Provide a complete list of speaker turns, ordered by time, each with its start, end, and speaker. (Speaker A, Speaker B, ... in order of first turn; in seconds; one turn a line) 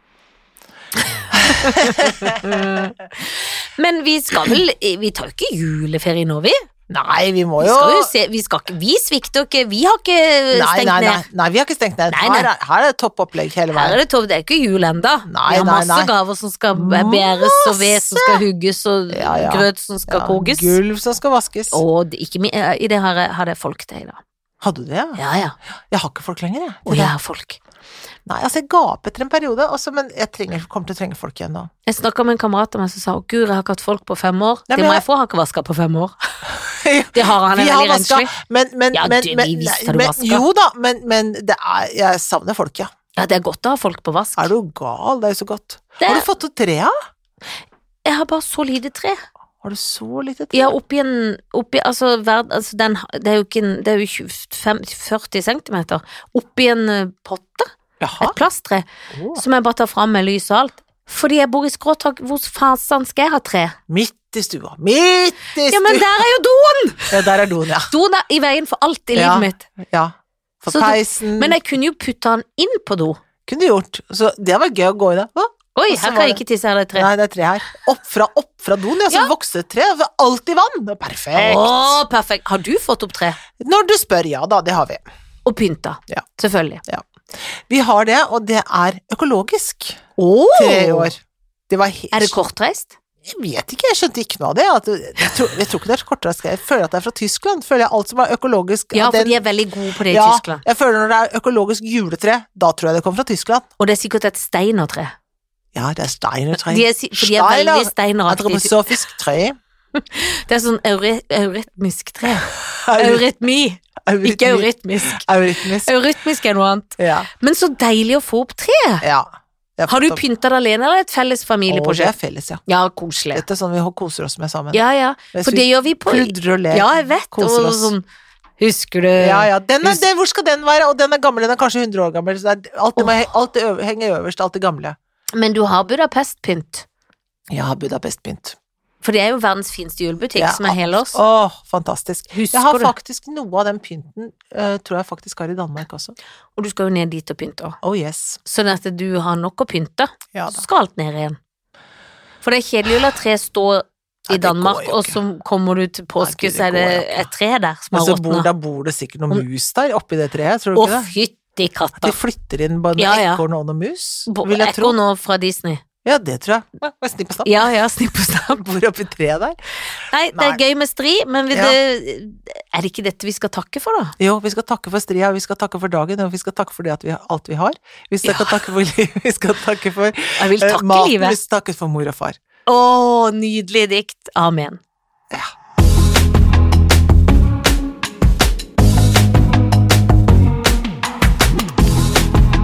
Speaker A: 1.3-2.9
Speaker B: 1.4-6.6
Speaker A: 6.9-8.1
Speaker B: 7.6-11.2
Speaker A: 10.5-14.0
Speaker B: 12.1-12.5
Speaker B: 13.7-20.8
Speaker A: 15.3-16.1
Speaker A: 16.7-18.4
Speaker A: 19.1-21.8
Speaker B: 21.7-24.2
Speaker A: 24.6-25.2
Speaker B: 25.2-25.5
Speaker A: 25.9-27.1
Speaker B: 26.9-27.6
Speaker A: 28.3-31.7
Speaker B: 31.9-36.1
Speaker A: 34.7-35.0
Speaker A: 36.5-42.9
Speaker B: 37.1-38.3
Speaker B: 38.9-40.4
Speaker B: 43.1-44.5
Speaker A: 44.4-46.9
Speaker B: 46.0-46.3
Speaker B: 48.0-49.2
Speaker A: 49.6-50.7
Speaker B: 50.5-63.8
Speaker A: 58.0-58.4
Speaker A: 59.1-59.4
Speaker A: 63.9-66.1
Speaker B: 65.7-67.2
Speaker A: 67.1-67.9
Speaker B: 67.9-69.7
Speaker A: 69.1-71.6
Speaker B: 70.7-73.2
Speaker A: 73.5-76.4
Speaker B: 75.7-77.1
Speaker A: 76.9-82.0
Speaker B: 81.3-83.4
Speaker A: 83.6-85.0
Speaker B: 85.5-86.8
Speaker A: 86.9-90.0
Speaker B: 90.2-91.1
Speaker A: 90.5-92.3
Speaker B: 92.1-92.9
Speaker A: 93.2-99.4
Speaker B: 98.9-100.6
Speaker A: 100.1-103.7
Speaker B: 103.8-105.1
Speaker A: 105.7-109.6
Speaker B: 106.7-108.8
Speaker B: 109.9-115.3
Speaker A: 112.2-113.2
Speaker A: 114.0-115.9
Speaker B: 115.8-119.0
Speaker A: 117.0-117.3
Speaker A: 119.0-120.2
Speaker B: 119.9-122.1
Speaker A: 121.7-122.6
Speaker B: 122.7-123.4
Speaker A: 123.3-124.8
Speaker B: 124.7-128.0
Speaker A: 125.3-127.9
Speaker B: 128.6-130.0
Speaker A: 129.2-135.0
Speaker B: 135.3-136.8
Speaker A: 137.5-138.6
Speaker B: 139.0-141.2
Speaker A: 140.3-146.2
Speaker B: 142.3-142.9
Speaker B: 146.6-147.8
Speaker A: 147.8-148.4
Speaker B: 148.4-151.4
Speaker A: 150.3-150.6
Speaker B: 152.4-158.5
Speaker A: 154.3-155.2
Speaker A: 156.2-157.3
Speaker A: 157.9-161.1
Speaker B: 160.8-162.2
Speaker A: 162.0-164.9
Speaker B: 163.0-163.4
Speaker B: 164.3-165.8
Speaker A: 166.0-167.7
Speaker B: 167.4-168.6
Speaker A: 168.5-169.6
Speaker B: 170.1-174.2
Speaker A: 170.3-170.6
Speaker A: 171.5-171.8
Speaker A: 174.2-182.4
Speaker B: 178.2-178.6
Speaker B: 180.4-181.4
Speaker B: 182.7-184.8